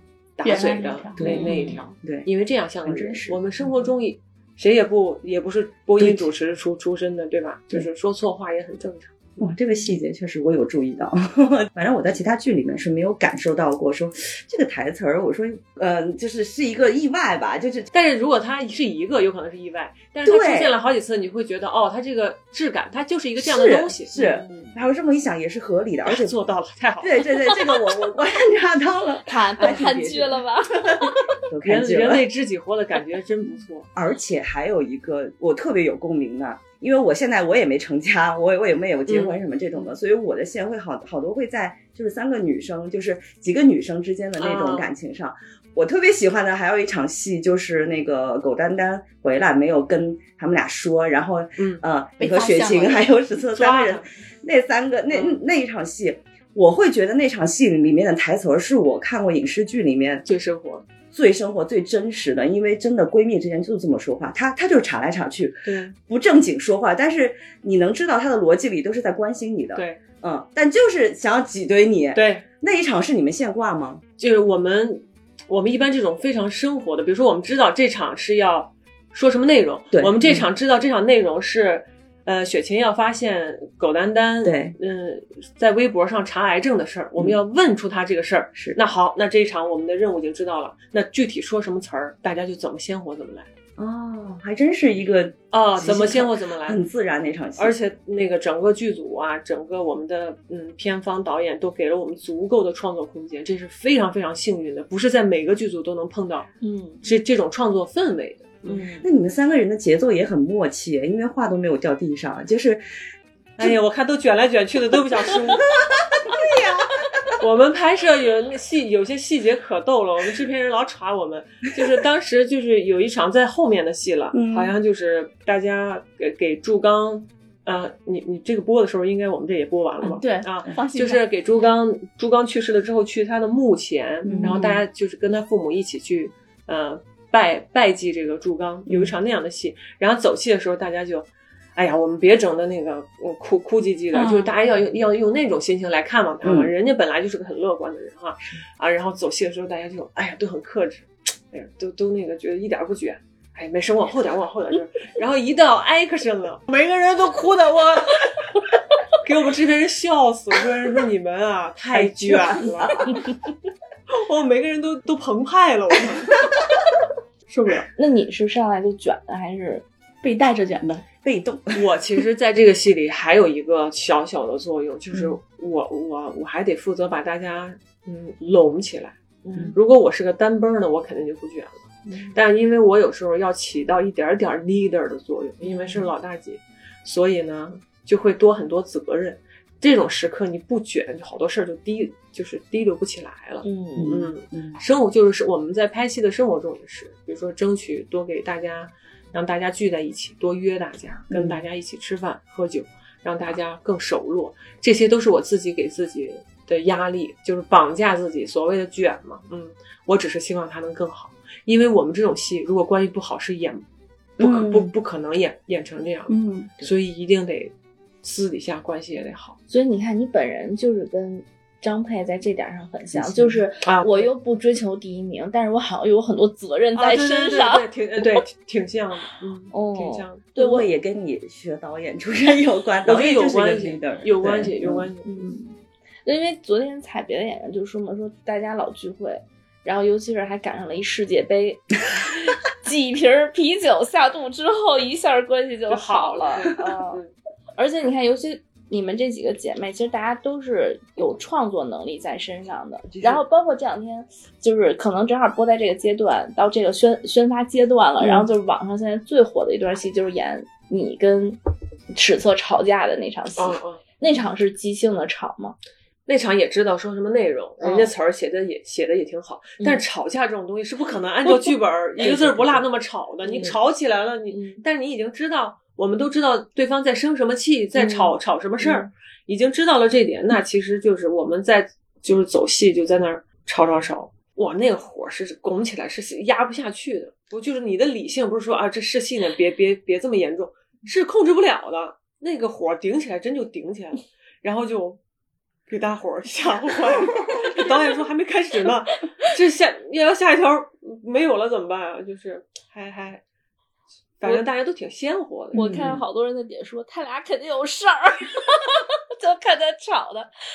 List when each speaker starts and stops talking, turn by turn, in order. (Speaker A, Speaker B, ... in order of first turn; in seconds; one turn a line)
Speaker A: 0.4-9.5
Speaker B: 0.4-1.7
Speaker C: 1.2-2.3
Speaker D: 1.2-1.8
Speaker C: 2.8-3.9
Speaker C: 6.0-6.3
Speaker C: 9.4-17.9
Speaker A: 17.9-24.6
Speaker C: 20.2-20.7
Speaker C: 23.4-26.3
Speaker D: 24.1-24.7
Speaker A: 26.0-27.3
Speaker C: 27.0-32.2
Speaker D: 29.2-31.3
Speaker A: 31.6-33.9
Speaker C: 33.9-60.2
Speaker A: 39.1-39.4
Speaker A: 44.4-44.9
Speaker A: 51.6-51.8
Speaker B: 52.2-53.1
Speaker A: 53.5-54.1
Speaker A: 55.1-55.4
Speaker A: 60.2-60.8
Speaker C: 61.1-74.0
Speaker A: 65.6-65.9
Speaker A: 69.7-70.0
Speaker A: 72.1-72.4
Speaker A: 74.2-93.5
Speaker C: 79.9-80.5
Speaker C: 84.4-84.7
Speaker C: 93.8-97.8
Speaker A: 95.5-96.8
Speaker A: 97.6-106.5
Speaker D: 106.6-107.0
Speaker A: 107.0-108.9
Speaker D: 108.7-109.0
Speaker C: 109.0-112.8
Speaker A: 113.6-115.6
Speaker C: 115.7-117.3
Speaker A: 117.4-158.3
Speaker C: 124.3-124.7
Speaker B: 130.0-131.2
Speaker B: 134.2-134.8
Speaker C: 134.3-134.7
Speaker C: 138.9-139.1
Speaker B: 144.1-144.5
Speaker C: 146.4-146.7
Speaker A: 159.2-163.2
Speaker C: 161.9-163.2
Speaker A: 164.1-166.4
Speaker A: 167.5-167.9
Speaker D: 168.0-169.8
Speaker B: 170.2-171.1
Speaker C: 171.2-171.8
Speaker A: 171.7-179.2
Speaker A: 179.7-213.8
Speaker D: 185.6-186.1
Speaker D: 193.6-194.2
Speaker C: 194.0-194.8
Speaker C: 201.3-201.6
Speaker C: 214.4-214.9
Speaker A: 214.4-219.6
Speaker B: 216.3-216.7
Speaker D: 219.7-228.4
Speaker C: 223.1-223.6
Speaker A: 223.8-224.3
Speaker A: 226.9-230.4
Speaker D: 229.7-230.9
Speaker C: 230.6-235.1
Speaker A: 233.0-235.4
Speaker D: 235.2-235.7
Speaker D: 236.2-247.2
Speaker A: 245.9-247.3
Speaker D: 247.8-261.6
Speaker D: 262.1-265.8
Speaker A: 263.6-264.0
Speaker A: 266.3-295.2
Speaker D: 267.8-268.1
Speaker D: 272.2-272.8
Speaker D: 273.4-273.7
Speaker D: 274.5-274.8
Speaker D: 277.9-279.0
Speaker A: 295.9-303.4
Speaker A: 304.4-306.0
Speaker D: 305.7-310.5
Speaker B: 305.8-306.1
Speaker C: 305.8-306.2